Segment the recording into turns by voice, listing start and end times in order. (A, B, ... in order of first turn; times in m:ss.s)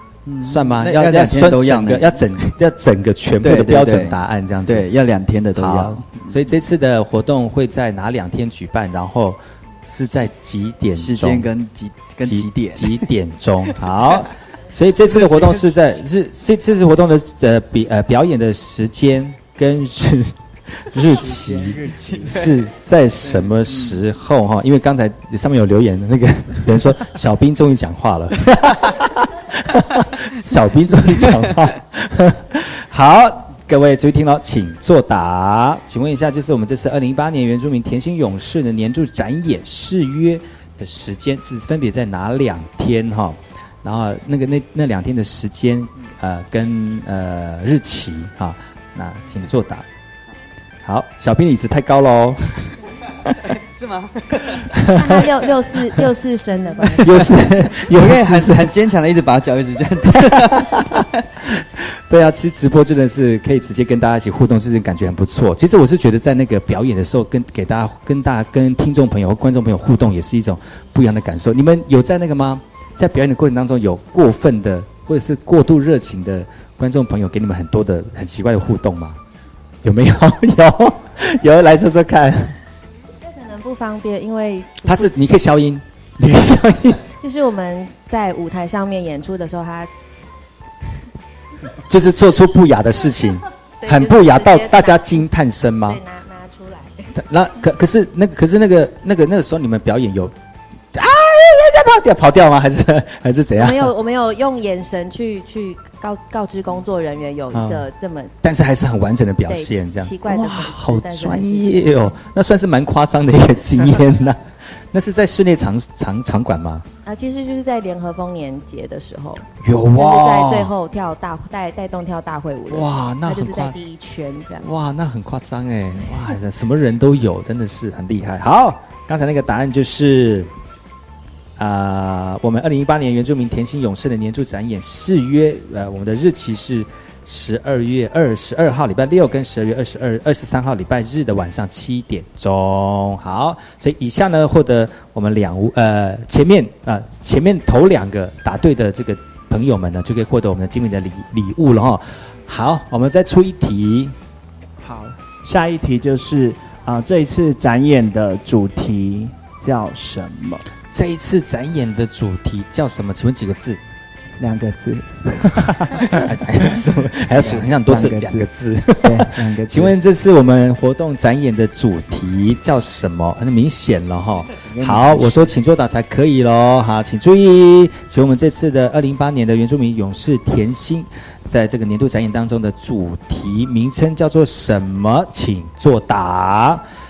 0:00.2-0:02.5 A
0:00.4-0:04.9 B
0:03.4-0:06.4 A
0:05.5-0:11.5 B
0:10.9-0:13.1 A
0:12.2-0:49.8 B
0:15.1-0:15.7 A
0:21.2-0:22.2 C
0:21.9-0:22.2 A
0:23.7-0:24.0 A
0:50.8-0:52.8 B
0:53.7-0:54.7 A
0:54.7-0:55.2 B
0:55.0-0:57.1 D
0:57.0-0:58.7 B
0:57.1-1:01.0 A
1:00.3-1:01.0 B
1:01.6-1:19.2 B
1:19.8-1:22.5 B
1:23.2-1:25.1 D
1:24.8-1:27.0 B
1:27.2-1:29.9 D
1:31.9-1:36.0 B
1:33.8-1:35.2 D
1:35.8-1:37.1 D
1:37.1-1:40.3 B
1:40.9-1:43.9 B
1:43.6-1:48.3 D
1:47.5-1:47.8 B
1:48.4-1:56.8 B
1:49.4-1:51.9 D
1:57.0-2:04.7 D
1:59.6-2:00.7 B
2:02.7-2:03.8 B
2:04.6-2:10.5 B
2:11.6-2:34.1 B
2:34.8-2:40.6 C
2:40.9-2:43.8 B
2:44.4-2:46.3 C
2:46.0-3:06.8 B
2:47.1-2:48.5 C
2:49.0-2:49.9 C
2:54.6-2:55.4 C